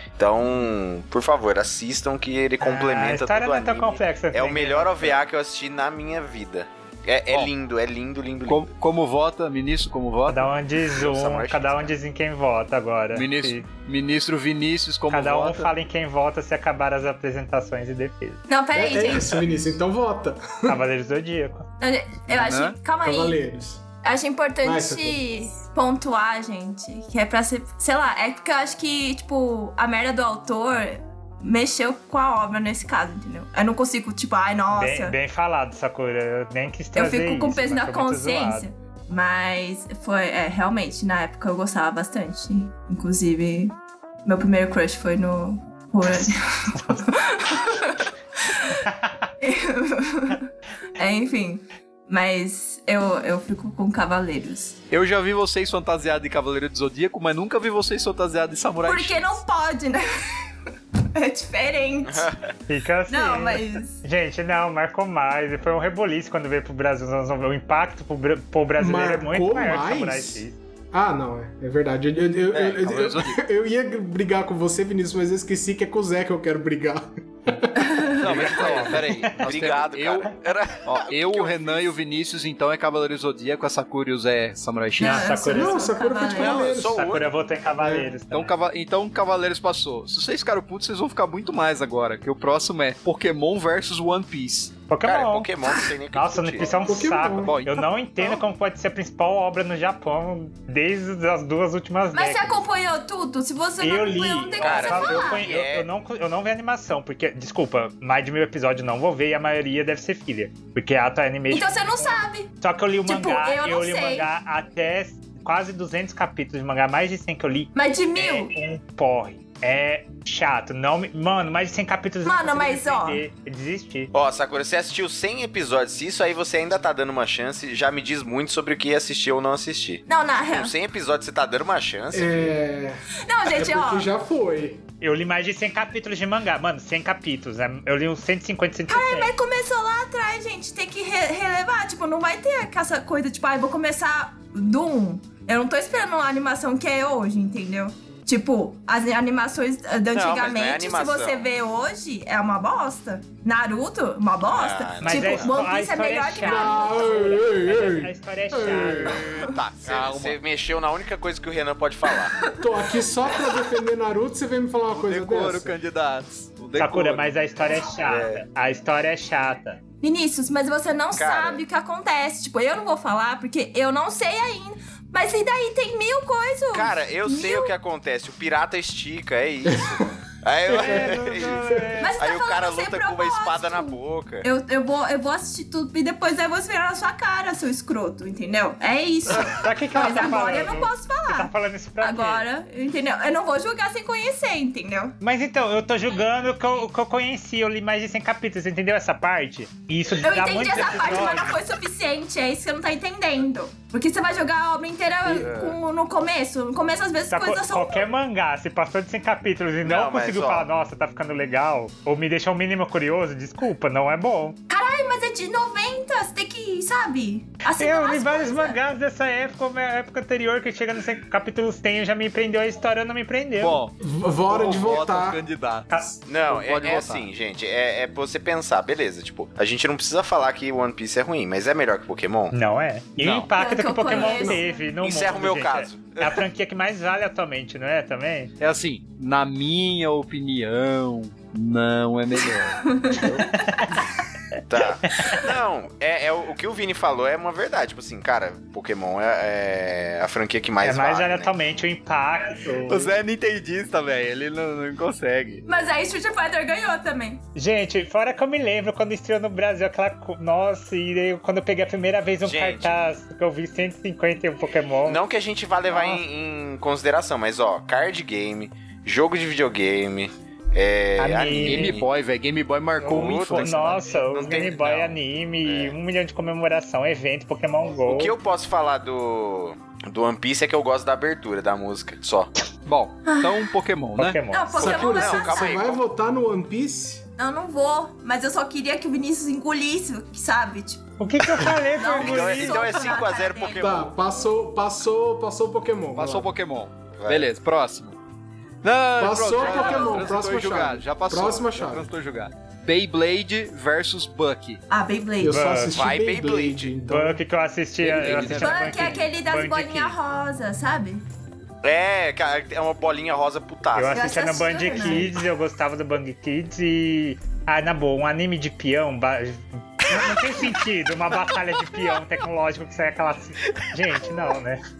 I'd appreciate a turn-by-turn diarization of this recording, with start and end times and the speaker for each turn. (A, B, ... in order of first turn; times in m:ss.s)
0:00.2-0:08.7 A
0:02.6-0:05.2 B
0:08.5-0:10.5 C
0:10.3-0:13.6 B
0:10.8-0:11.9 A
0:13.1-0:15.7 C
0:15.1-0:18.4 B
0:18.5-0:19.4 D
0:18.7-0:20.8 E
0:20.7-0:21.6 B
0:21.8-0:23.4 D
0:22.3-0:22.8 C
0:23.0-0:23.8 E
0:24.0-0:35.2 D
0:24.6-0:25.2 E
0:34.7-0:38.7 B
0:36.9-0:48.8 D
0:49.4-0:54.8 D
0:54.9-0:59.4 C
0:58.8-1:00.5 D
1:01.0-1:02.3 D
1:02.0-1:02.4 A
1:02.7-1:10.6 B
1:03.1-1:04.0 D
1:08.8-1:18.2 E
1:12.5-1:13.4 C
1:17.8-1:18.3 D
1:18.1-1:20.3 C
1:18.3-1:19.5 B
1:18.4-1:18.9 A
1:19.4-1:21.9 A
1:20.8-1:25.4 C
1:25.0-1:26.6 D
1:25.0-1:26.0 B
1:25.4-1:27.2 E
1:26.3-1:27.3 A
1:26.6-1:28.5 B
1:27.8-1:28.1 E
1:28.3-1:34.7 C
1:34.9-1:35.5 B
1:35.0-1:36.9 A
1:36.1-1:42.6 B
1:36.8-1:37.5 E
1:37.4-1:38.4 C
1:42.1-1:45.4 D
1:43.8-2:04.1 B
1:44.6-1:45.9 A
1:51.5-1:52.5 D
1:53.0-1:54.3 D
1:57.7-1:58.5 D
2:02.2-2:03.2 D
2:04.1-2:12.5 A
2:10.1-2:10.7 D
2:12.1-2:14.8 E
2:13.2-2:14.1 D
2:15.0-2:19.3 B
2:18.9-2:37.4 D
2:30.1-2:31.5 A
2:34.4-2:35.5 A
2:35.0-2:39.2 B
2:36.4-2:39.3 E
2:38.8-2:42.4 A
2:39.8-2:40.4 C
2:42.2-2:42.6 D
2:42.5-2:45.8 E
2:44.9-2:47.3 C
2:46.7-2:49.8 B
2:48.0-2:48.4 A
2:50.0-2:57.7 D
2:51.1-2:51.6 A
2:56.7-3:04.5 A
2:59.7-3:00.0 E
3:00.7-3:02.2 B
3:00.7-3:01.9 E
3:02.0-3:15.2 D
3:09.4-3:12.4 B
3:15.2-3:21.6 B
3:20.2-3:28.0 D
3:25.2-3:25.8 A
3:27.3-3:34.6 B
3:29.8-3:30.7 A
3:34.7-3:38.8 D
3:37.6-3:43.8 B
3:43.6-3:44.0 C
3:44.0-3:45.4 E
3:44.5-3:47.3 C
3:46.2-3:52.5 A
3:52.5-3:58.5 B
3:53.2-3:53.5 C
3:53.5-3:54.8 D
3:54.2-3:54.6 E
3:55.0-3:56.4 A
3:58.6-4:04.0 C
4:02.7-4:03.7 D
4:04.7-4:11.6 A
4:10.8-4:13.1 B
4:12.9-4:15.6 C
4:15.6-4:17.4 D
4:17.5-4:25.2 B
4:22.4-4:23.0 A
4:25.0-4:32.1 A
4:25.9-4:26.2 B
4:31.2-4:32.0 B
4:31.6-4:34.0 C
4:33.0-4:36.0 A
4:33.0-4:38.3 B
4:38.0-4:42.5 A
4:42.8-4:44.4 C
4:43.2-4:43.6 D
4:44.2-4:44.8 B
4:44.5-4:45.7 D
4:44.7-4:47.2 E
4:45.0-4:46.0 A
4:47.4-4:51.0 D
4:51.2-4:52.9 B
4:51.9-4:53.8 D
4:52.1-4:54.1 A
4:53.8-4:56.5 E
4:56.1-4:58.2 C
4:57.2-4:57.5 A
4:58.8-5:04.8 C
4:59.2-5:02.1 E
5:04.9-5:05.6 D
5:05.4-5:07.4 E
5:05.4-5:06.0 B
5:05.9-5:06.9 A
5:07.0-5:10.2 B
5:08.0-5:09.2 C
5:08.5-5:11.2 D
5:11.8-5:14.3 A
5:13.9-5:24.8 B
5:14.1-5:15.3 D